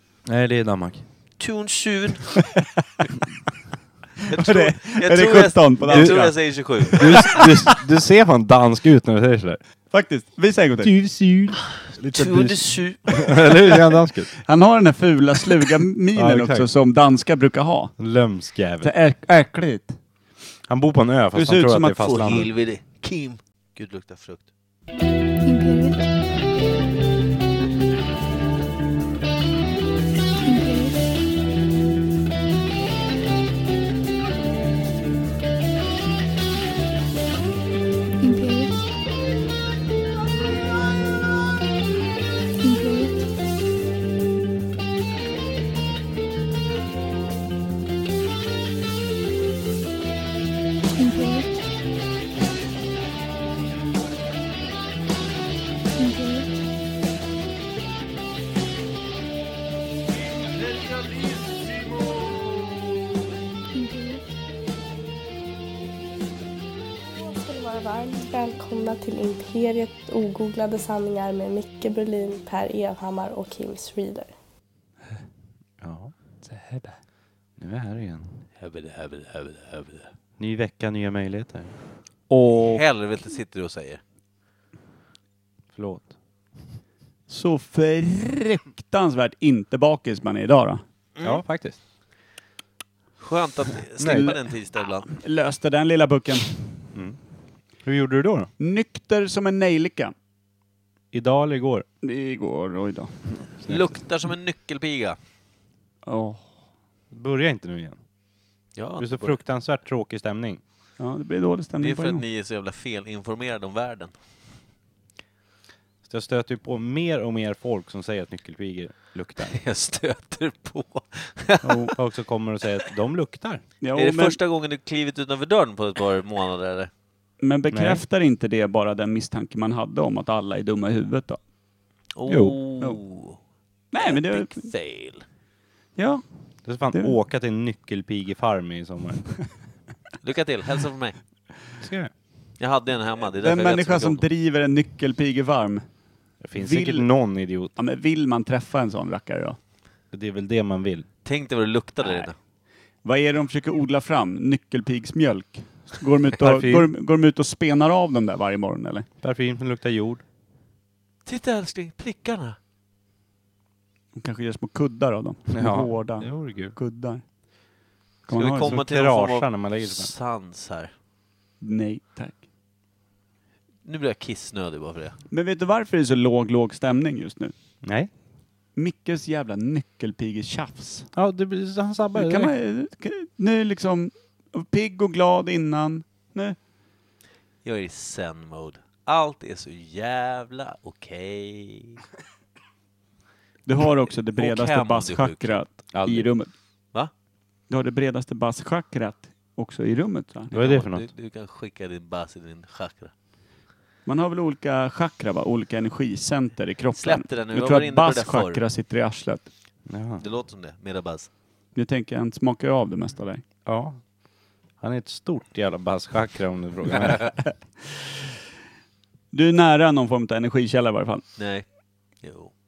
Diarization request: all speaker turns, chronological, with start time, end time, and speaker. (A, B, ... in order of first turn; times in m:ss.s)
0:00.2-0:01.0 A
0:01.4-0:02.4 B
0:04.3-0:07.4 C
0:04.3-0:07.4 B
0:05.9-0:09.6 A
0:09.9-0:10.9 C
0:10.8-0:14.3 A
0:12.1-0:13.8 B
0:14.4-0:18.0 C
0:16.1-0:16.7 A
0:18.0-0:18.9 A
0:18.8-0:20.0 C
0:20.7-0:22.5 A
0:21.3-0:22.5 C
0:22.0-0:24.5 B
0:25.4-0:26.1 D
0:30.4-0:31.1 D
0:38.2-0:38.8 D
0:42.6-0:43.2 D
0:51.0-0:51.6 D
0:56.0-0:56.6 D
1:03.7-1:04.2 D
1:07.0-1:14.3 E
1:15.8-1:16.1 A
1:16.4-1:17.0 C
1:17.6-1:18.4 A
1:18.6-1:20.1 B
1:20.4-1:21.7 A
1:22.3-1:22.8 C
1:22.7-1:24.0 B
1:25.7-1:26.1 A
1:27.3-1:30.8 C
1:31.2-1:31.4 B
1:31.2-1:31.8 A
1:33.2-1:35.1 B
1:34.0-1:34.3 A
1:35.1-1:36.8 C
1:36.9-1:37.2 A
1:37.8-1:38.5 A
1:38.6-1:40.1 C
1:41.1-1:41.8 A
1:42.0-1:43.3 C
1:43.6-1:43.9 A
1:43.7-1:45.2 B
1:46.0-1:46.4 C
1:47.1-1:48.0 A
1:48.7-1:49.4 B
1:49.0-1:50.6 A
1:51.0-1:52.2 C
1:51.8-1:54.1 B
1:56.0-1:59.6 A
1:59.5-2:02.0 B
2:01.6-2:01.9 C
2:02.0-2:03.6 A
2:03.8-2:04.4 C
2:04.0-2:06.9 B
2:07.4-2:11.4 C
2:07.7-2:08.0 A
2:12.1-2:13.4 B
2:12.3-2:12.6 A
2:13.9-2:14.7 C
2:14.0-2:15.2 B
2:16.0-2:16.2 C
2:16.6-2:19.4 A
2:16.8-2:17.2 C
2:20.2-2:21.2 B
2:21.8-2:22.1 A
2:22.6-2:24.2 B
2:23.4-2:25.8 C
2:26.4-2:27.7 A
2:26.5-2:27.1 C
2:27.7-2:29.6 C
2:30.1-2:31.1 A
2:31.2-2:32.3 B
2:32.0-2:32.3 C
2:33.0-2:39.1 C
2:36.4-2:36.9 A
2:39.2-2:40.2 A
2:41.2-2:42.6 B
2:44.1-2:47.2 C
2:45.5-2:46.7 A
2:48.3-2:48.8 C
2:48.3-2:50.9 B
2:48.6-2:50.1 A
2:51.6-2:52.4 C
2:53.8-2:55.2 B
2:55.3-2:57.5 C
2:57.8-2:58.1 A
2:58.8-3:01.1 C
3:01.1-3:02.5 A
3:02.1-3:06.6 C
3:07.6-3:12.0 B
3:13.6-3:16.5 C
3:13.8-3:15.6 B
3:15.9-3:16.3 A
3:17.7-3:20.5 C
3:20.5-3:21.1 A
3:20.5-3:23.1 B
3:24.0-3:29.5 C
3:27.0-3:28.6 B
3:29.9-3:30.2 A
3:30.2-3:31.3 B
3:31.7-3:33.4 C
3:33.6-3:34.1 A
3:34.8-3:37.3 A
3:39.3-3:41.2 C
3:41.4-3:41.6 B
3:42.2-3:42.5 B